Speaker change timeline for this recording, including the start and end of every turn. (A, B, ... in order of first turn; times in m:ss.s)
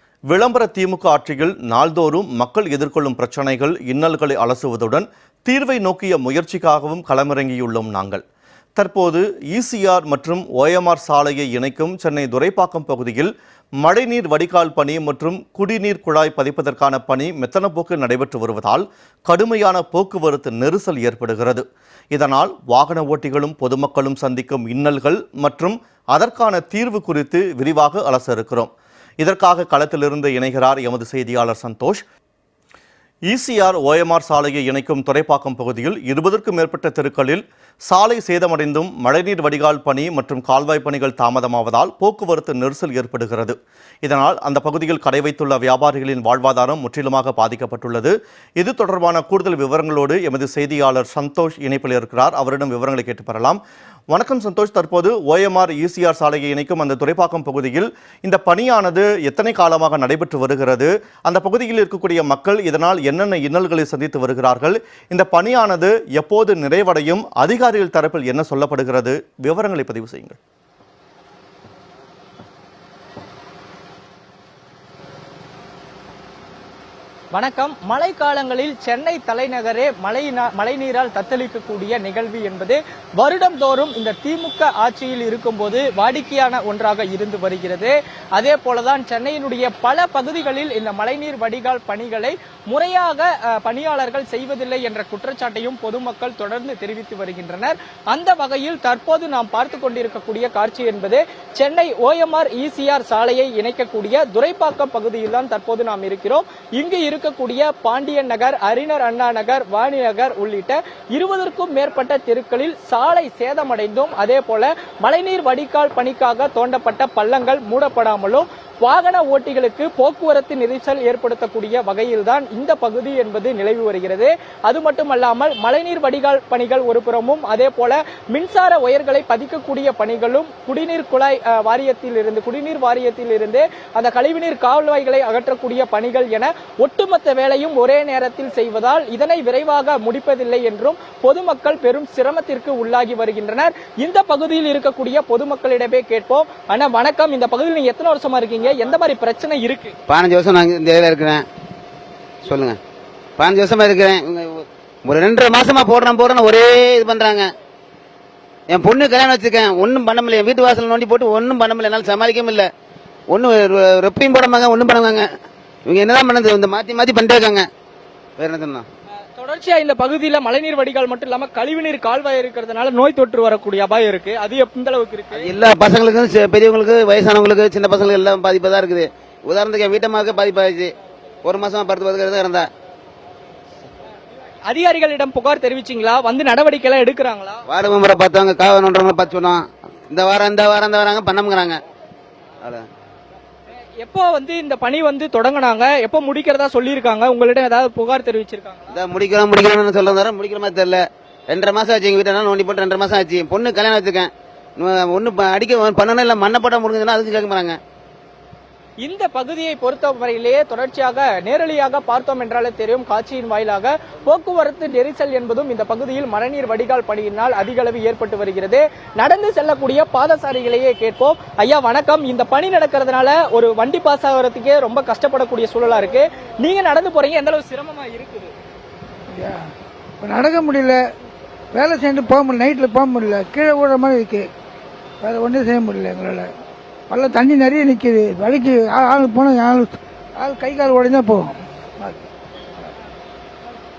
0:00.3-0:08.2 A
0:08.8-0:32.0 A
0:33.3-0:53.6 A
0:54.1-1:10.4 A
1:17.3-2:30.0 B
2:30.1-2:31.4 C
2:32.4-2:32.8 C
2:33.4-2:37.5 C
2:38.7-2:42.7 C
2:43.3-2:45.3 C
2:45.9-2:47.7 C
2:48.4-2:48.9 C
2:49.4-2:55.5 B
2:55.4-3:00.9 C
3:01.4-3:02.7 C
3:04.7-3:07.6 B
3:07.7-3:11.8 C
3:14.0-3:18.9 B
3:18.9-3:27.8 C
3:29.0-3:48.5 B
3:49.3-3:49.7 D
3:50.2-3:51.1 D
3:51.7-3:54.5 D
3:55.2-3:56.5 D
3:57.1-4:02.3 D